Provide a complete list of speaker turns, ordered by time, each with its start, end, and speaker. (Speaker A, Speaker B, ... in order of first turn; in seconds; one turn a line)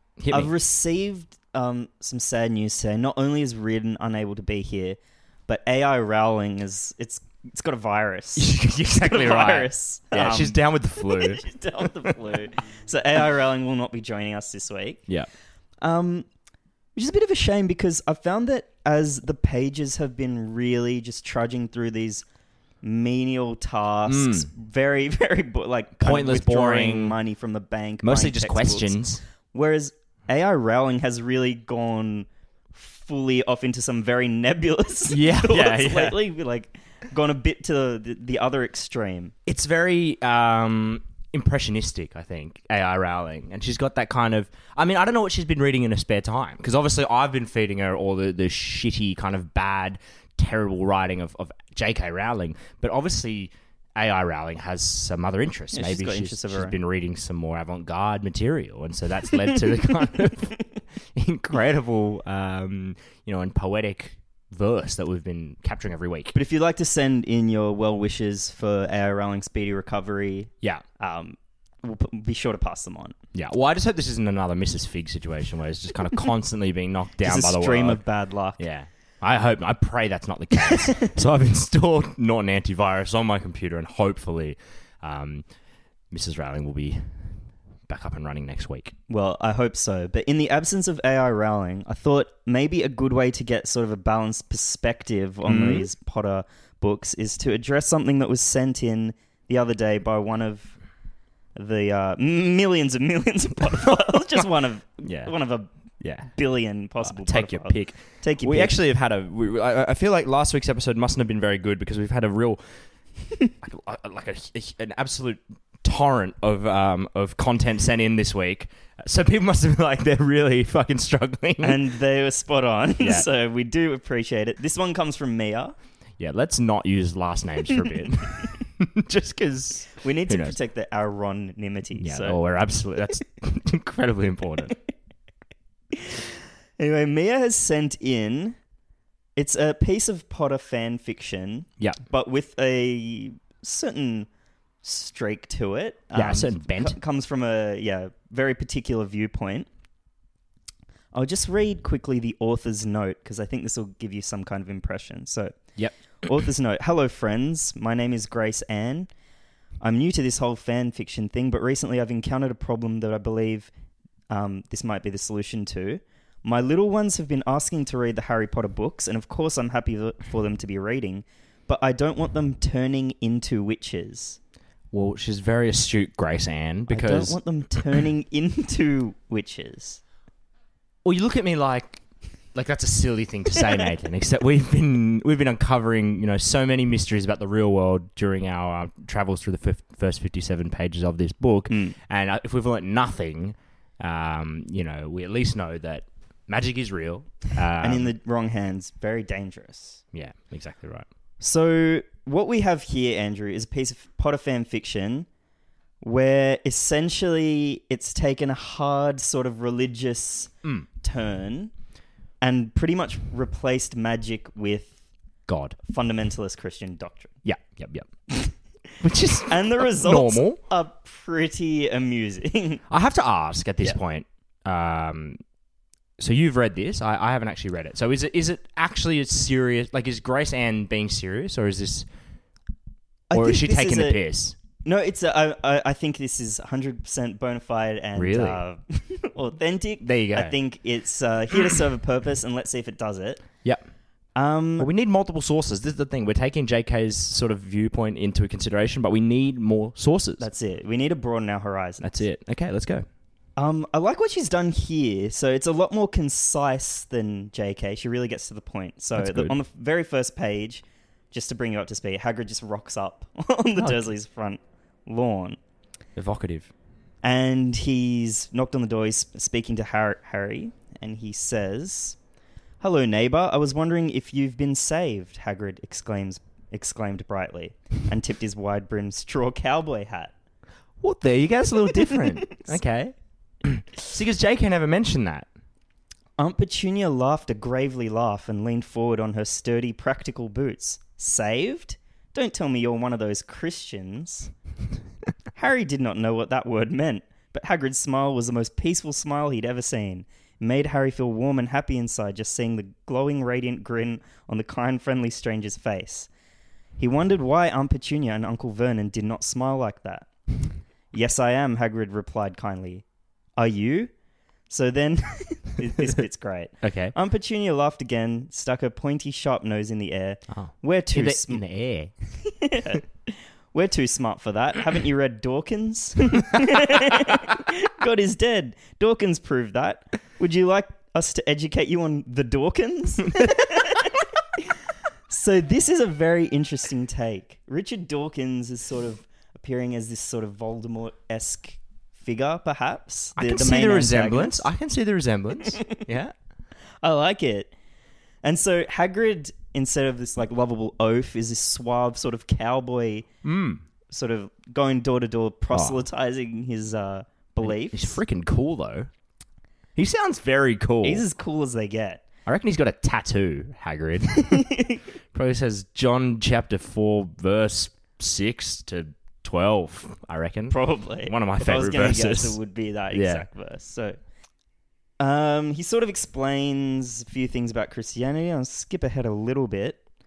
Speaker A: 0.2-0.5
Speaker B: 0.3-15.0
Speaker A: 8.4-11.4
Speaker B: 15.8-16.3
Speaker B: 16.9-22.2
Speaker B: 22.8-29.0
Speaker A: 24.1-24.5
Speaker A: 26.0-27.2
Speaker A: 28.0-29.2
Speaker B: 29.5-39.3
Speaker A: 35.1-36.2
Speaker A: 39.5-60.6
Speaker B: 55.7-56.8
Speaker A: 61.1-66.3
Speaker B: 66.3-73.2
Speaker A: 73.3-78.0
Speaker B: 77.2-78.6
Speaker A: 78.6-85.5
Speaker B: 80.7-81.1
Speaker A: 86.1-87.2
Speaker A: 87.9-88.9
Speaker B: 89.1-100.8
Speaker A: 95.5-95.9
Speaker B: 101.6-105.7
Speaker A: 105.0-105.3
Speaker A: 106.0-106.3
Speaker B: 106.3-108.8
Speaker A: 107.0-112.6
Speaker A: 113.6-121.8
Speaker B: 121.6-125.7
Speaker A: 123.0-123.3
Speaker A: 126.2-130.6
Speaker B: 130.0-132.4
Speaker A: 132.0-134.8
Speaker B: 136.0-136.2
Speaker B: 136.8-138.6
Speaker B: 139.4-144.3
Speaker B: 144.8-149.7
Speaker A: 146.2-147.0
Speaker B: 151.1-155.6
Speaker B: 156.2-159.1
Speaker B: 159.8-163.7
Speaker B: 164.3-174.4
Speaker A: 174.9-178.0
Speaker B: 176.9-180.0
Speaker A: 181.1-182.0
Speaker A: 182.5-198.1
Speaker B: 191.7-192.0
Speaker B: 197.8-200.0
Speaker A: 200.1-201.1
Speaker B: 201.4-205.3
Speaker B: 206.0-211.7
Speaker B: 212.4-215.0
Speaker A: 215.5-215.8
Speaker B: 215.8-217.4
Speaker A: 217.4-218.1
Speaker B: 218.3-222.8
Speaker A: 219.0-220.6
Speaker A: 222.9-225.4
Speaker A: 226.2-232.1
Speaker B: 233.3-234.2
Speaker A: 233.3-234.6
Speaker B: 234.8-243.4
Speaker A: 238.2-238.6
Speaker A: 240.0-240.6
Speaker B: 244.4-244.9
Speaker A: 244.8-250.5
Speaker B: 250.4-252.1
Speaker A: 252.0-253.1
Speaker B: 253.6-265.6
Speaker A: 259.1-259.5
Speaker A: 263.8-264.1
Speaker A: 266.2-266.7
Speaker B: 267.2-272.2
Speaker B: 272.8-280.3
Speaker A: 281.0-285.5
Speaker B: 282.1-282.7
Speaker B: 286.4-294.5
Speaker B: 295.6-306.3
Speaker B: 307.0-310.3
Speaker B: 311.1-313.0
Speaker B: 313.6-314.1
Speaker B: 314.7-321.6
Speaker A: 316.8-317.1
Speaker A: 320.5-322.1
Speaker B: 322.4-334.6
Speaker B: 335.3-344.7
Speaker A: 343.4-346.3
Speaker B: 345.7-346.0
Speaker B: 347.0-347.7
Speaker B: 348.4-353.3
Speaker A: 353.4-353.8
Speaker B: 354.1-358.2
Speaker A: 355.7-356.1
Speaker A: 357.6-359.1
Speaker A: 360.0-361.2
Speaker B: 361.0-362.2
Speaker A: 362.5-364.7
Speaker B: 364.5-365.0
Speaker A: 365.3-372.6
Speaker B: 370.7-374.2
Speaker A: 373.1-373.5
Speaker B: 375.2-380.0